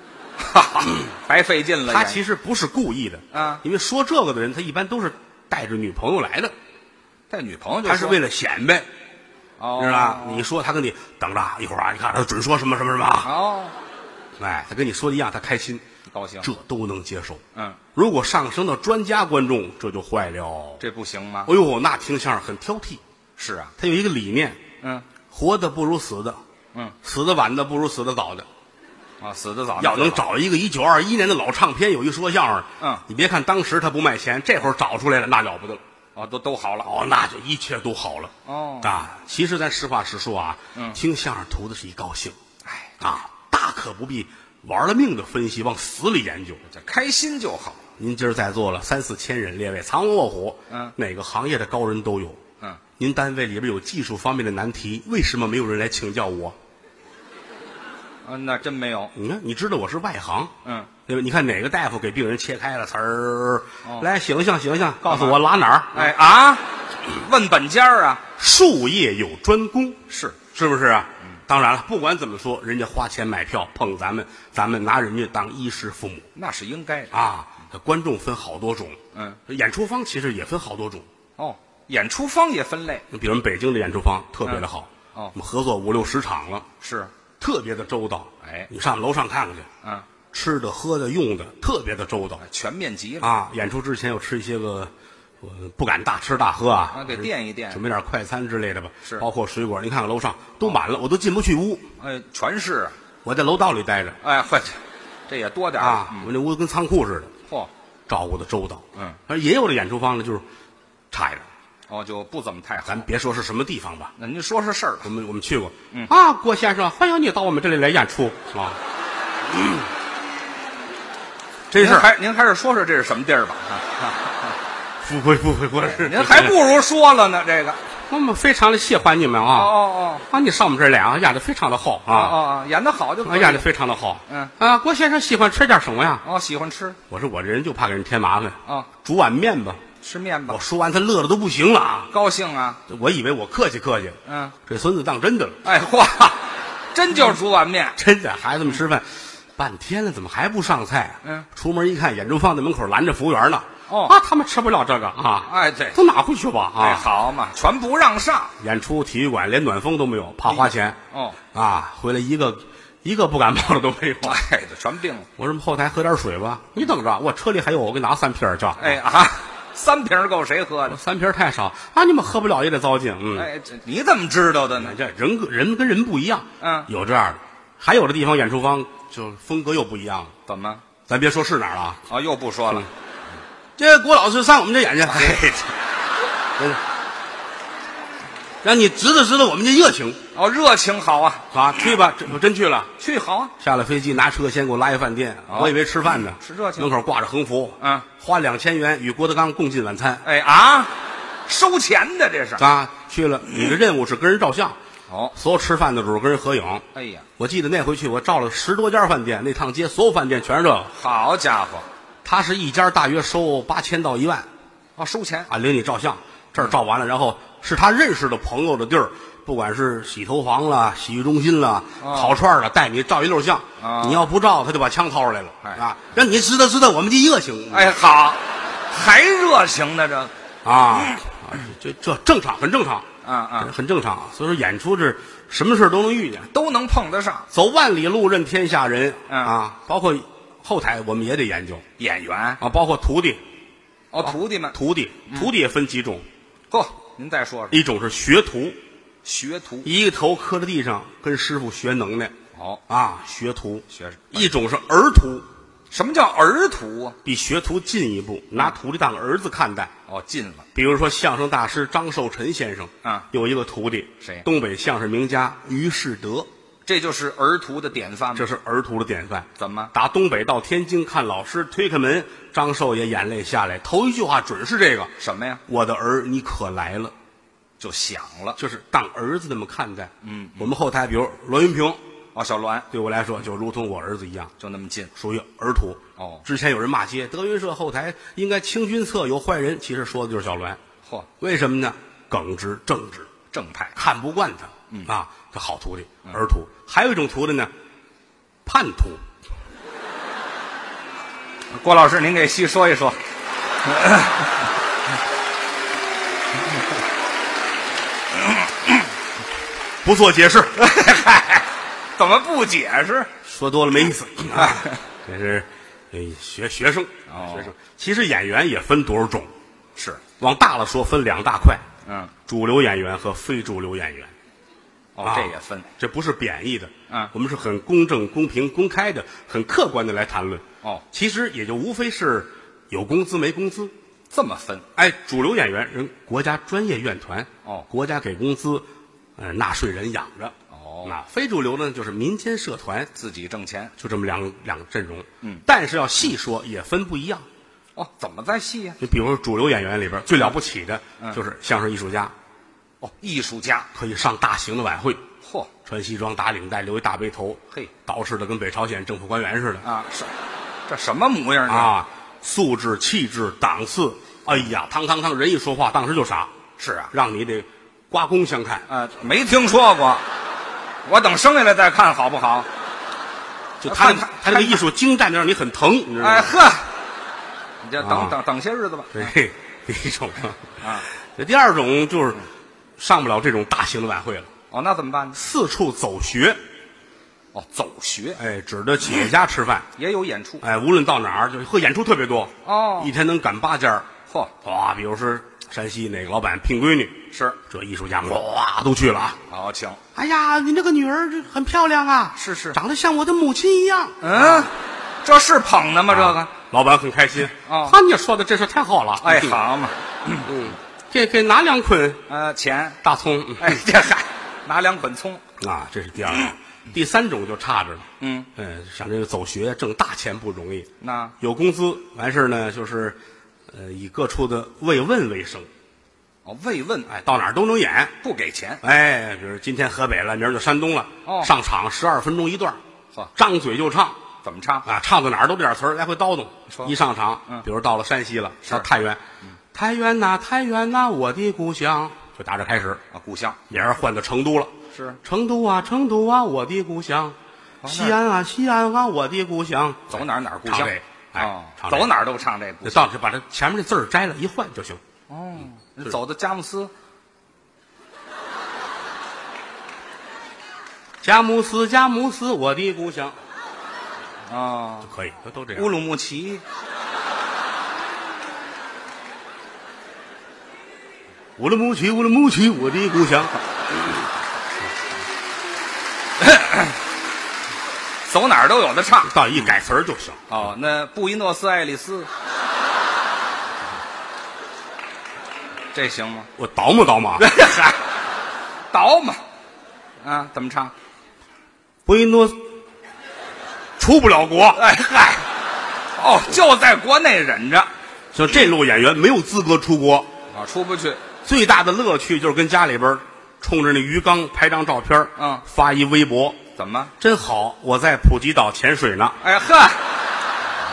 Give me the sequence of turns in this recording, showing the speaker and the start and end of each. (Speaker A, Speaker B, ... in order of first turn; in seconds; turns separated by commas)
Speaker A: 0.4-2.2, Speaker B: 1.9-6.5, Speaker A: 3.3-3.6, Speaker A: 7.3-8.2, Speaker B: 7.8-8.9, Speaker A: 9.6-10.5, Speaker B: 9.8-13.3, Speaker A: 13.2-13.8, Speaker B: 14.4-15.8, Speaker A: 16.1-16.5, Speaker B: 16.4-17.4, Speaker B: 17.9-20.8, Speaker A: 20.8-21.5, Speaker B: 21.5-23.0, Speaker A: 23.4-23.7, Speaker B: 23.8-24.6, Speaker A: 24.8-25.1, Speaker B: 25.3-26.4, Speaker B: 27.0-28.5, Speaker A: 29.2-30.2, Speaker B: 29.8-35.8, Speaker A: 36.2-36.9, Speaker B: 36.8-42.4, Speaker A: 38.5-39.0, Speaker A: 42.6-42.9, Speaker B: 43.0-46.6, Speaker A: 46.6-47.8, Speaker B: 48.0-52.4, Speaker B: 53.0-56.6, Speaker A: 58.2-59.1, Speaker B: 59.1-60.5, Speaker B: 61.1-66.1, Speaker A: 65.1-65.4, Speaker A: 65.9-68.2, Speaker B: 68.4-76.3, Speaker A: 70.1-70.4, Speaker A: 76.3-77.2, Speaker B: 77.1-81.1, Speaker A: 79.1-79.4, Speaker A: 81.4-83.0, Speaker B: 83.1-86.7, Speaker A: 84.4-85.3, Speaker A: 86.8-87.1, Speaker B: 87.4-89.7, Speaker A: 88.4-88.7, Speaker B: 90.3-92.4, Speaker A: 92.4-93.3, Speaker B: 93.2-101.9, Speaker A: 96.9-97.8, Speaker A: 102.0-103.0, Speaker B: 103.2-104.2, Speaker A: 104.2-106.3, Speaker B: 105.8-107.3, Speaker B: 108.1-110.5, Speaker B: 111.1-111.5, Speaker A: 111.9-113.1, Speaker B: 112.9-114.1, Speaker A: 114.2-115.1, Speaker B: 115.0-118.8, Speaker B: 119.5-119.8, Speaker B: 121.7-122.1, Speaker A: 121.8-124.5, Speaker B: 125.0-126.6, Speaker A: 125.9-127.8, Speaker B: 128.1-129.8, Speaker A: 129.5-130.2, Speaker B: 130.3-132.4, Speaker A: 132.1-133.7, Speaker B: 133.2-136.2, Speaker A: 134.3-134.5, Speaker A: 136.2-137.0, Speaker B: 137.1-139.8, Speaker A: 140.0-140.6, Speaker B: 140.5-142.1, Speaker A: 142.1-142.8, Speaker B: 142.9-145.6, Speaker A: 144.3-144.6, Speaker A: 145.6-148.0, Speaker B: 148.0-157.1, Speaker A: 153.9-154.2, Speaker A: 155.5-156.0, Speaker A: 156.8-158.5, Speaker B: 158.6-161.0, Speaker A: 160.5-161.4, Speaker B: 161.5-164.4, Speaker A: 164.2-165.3, Speaker B: 165.4-169.0, Speaker A: 168.8-171.0, Speaker B: 170.9-173.5, Speaker A: 173.3-175.0, Speaker B: 174.8-180.3, Speaker A: 176.6-176.9, Speaker A: 180.5-180.8, Speaker B: 181.1-182.0, Speaker A: 182.1-182.9, Speaker B: 183.8-185.7, Speaker A: 185.1-185.6, Speaker B: 188.6-190.2, Speaker A: 190.3-191.4, Speaker B: 191.5-192.9, Speaker A: 193.0-193.5, Speaker B: 193.6-200.2, Speaker A: 195.5-195.8, Speaker A: 196.4-196.9, Speaker A: 197.8-198.1, Speaker A: 200.2-200.9, Speaker A: 201.5-202.6, Speaker B: 202.6-204.8, Speaker A: 205.1-205.3, Speaker B: 205.3-206.9, Speaker A: 206.9-207.3, Speaker B: 207.4-210.9, Speaker A: 210.9-211.9, Speaker B: 212.2-214.5, Speaker A: 215.0-215.5, Speaker B: 215.5-227.9, Speaker A: 222.0-222.4, Speaker A: 223.8-224.2, Speaker A: 227.7-230.3, Speaker B: 230.7-233.1, Speaker A: 230.9-231.2, Speaker A: 233.2-233.7, Speaker B: 233.6-236.5, Speaker A: 236.5-237.5, Speaker B: 237.5-241.8, Speaker A: 239.3-239.5, Speaker A: 242.0-242.6, Speaker B: 242.6-243.4, Speaker A: 244.1-244.8, Speaker B: 244.2-246.2, Speaker A: 246.7-247.8, Speaker B: 247.7-248.8, Speaker A: 249.2-249.9, Speaker B: 249.8-252.3, Speaker A: 252.6-252.8, Speaker B: 252.9-255.4, Speaker A: 253.9-254.5, Speaker A: 255.9-257.2, Speaker B: 257.2-259.9, Speaker A: 260.1-260.7, Speaker B: 260.8-266.5, Speaker A: 266.9-268.5, Speaker B: 268.4-275.1, Speaker A: 269.6-269.9, Speaker A: 275.2-275.6, Speaker B: 275.7-277.1, Speaker A: 277.8-278.6, Speaker B: 278.6-282.0, Speaker A: 280.2-280.7, Speaker A: 282.4-282.9, Speaker B: 282.9-284.5, Speaker A: 284.6-285.1, Speaker B: 285.2-290.8, Speaker A: 286.2-286.4, Speaker B: 291.4-293.3, Speaker A: 293.5-294.0, Speaker B: 293.9-297.7, Speaker B: 298.6-299.2, Speaker A: 301.7-303.2, Speaker A: 303.8-304.5, Speaker A: 308.5-308.9, Speaker B: 310.0-310.8, Speaker A: 310.8-313.3, Speaker B: 313.4-319.5, Speaker A: 314.6-315.0, Speaker A: 317.3-317.7, Speaker A: 320.0-320.2, Speaker B: 320.4-321.9, Speaker A: 322.1-322.3, Speaker B: 322.5-324.3, Speaker A: 325.2-325.9, Speaker B: 325.2-333.9, Speaker A: 334.3-334.9, Speaker B: 335.0-343.1, Speaker A: 340.7-341.1, Speaker A: 343.1-343.9, Speaker B: 344.0-347.5, Speaker A: 348.0-349.0, Speaker B: 349.0-352.3, Speaker A: 353.0-353.9, Speaker B: 353.9-355.2, Speaker A: 355.4-355.7, Speaker B: 355.9-359.9, Speaker A: 359.8-360.3, Speaker A: 360.9-361.9, Speaker B: 361.7-366.5, Speaker A: 366.8-367.1, Speaker B: 367.1-368.9, Speaker A: 368.9-370.2, Speaker A: 371.1-372.7, Speaker B: 373.8-376.5, Speaker A: 373.9-374.8, Speaker A: 376.2-376.9, Speaker A: 377.8-379.3, Speaker B: 378.0-378.4, Speaker B: 379.1-380.6, Speaker A: 380.8-381.1, Speaker B: 381.2-382.4, Speaker B: 383.0-384.5, Speaker A: 384.7-385.4, Speaker B: 385.3-386.6, Speaker A: 387.5-388.4, Speaker B: 388.4-389.9, Speaker A: 390.0-390.6, Speaker B: 390.6-394.1, Speaker A: 392.6-393.1, Speaker B: 394.6-399.4, Speaker A: 397.3-397.6, Speaker A: 399.5-400.0, Speaker B: 400.1-404.7, Speaker A: 402.4-402.8, Speaker A: 404.2-404.7, Speaker A: 405.2-406.5, Speaker B: 406.1-409.6, Speaker A: 407.7-408.0, Speaker A: 409.2-410.5, Speaker B: 410.4-412.2, Speaker A: 412.3-413.0, Speaker B: 413.0-413.8, Speaker A: 413.6-415.4, Speaker B: 415.6-420.9, Speaker A: 418.2-418.5, Speaker A: 421.0-421.3, Speaker B: 421.4-423.2, Speaker B: 423.7-425.7, Speaker A: 426.4-427.1, Speaker B: 427.1-428.1, Speaker A: 428.2-428.8, Speaker B: 428.8-432.8, Speaker A: 431.2-431.5, Speaker B: 433.4-434.2, Speaker A: 434.4-434.9, Speaker B: 434.9-439.2, Speaker A: 436.7-436.9, Speaker B: 439.7-443.0, Speaker A: 443.1-443.6, Speaker B: 443.7-452.1, Speaker A: 444.9-445.2, Speaker A: 447.8-448.2, Speaker A: 450.1-453.1, Speaker B: 452.8-455.0, Speaker A: 455.3-456.9, Speaker B: 461.2-463.4, Speaker A: 464.5-465.1, Speaker B: 465.1-465.9, Speaker A: 465.8-466.6, Speaker B: 471.6-474.0, Speaker A: 476.4-477.0, Speaker A: 478.3-479.7, Speaker B: 479.2-480.5, Speaker A: 480.5-482.3, Speaker A: 485.9-486.5, Speaker B: 486.6-487.5, Speaker A: 487.4-488.0, Speaker A: 488.9-489.4, Speaker A: 490.2-490.9, Speaker B: 492.1-492.6, Speaker B: 494.0-494.8, Speaker A: 494.8-495.5, Speaker A: 496.2-497.9, Speaker B: 498.3-500.3, Speaker A: 500.5-501.2, Speaker B: 501.4-506.6, Speaker A: 505.4-505.6, Speaker A: 506.8-507.1, Speaker B: 507.2-509.4, Speaker A: 509.4-510.2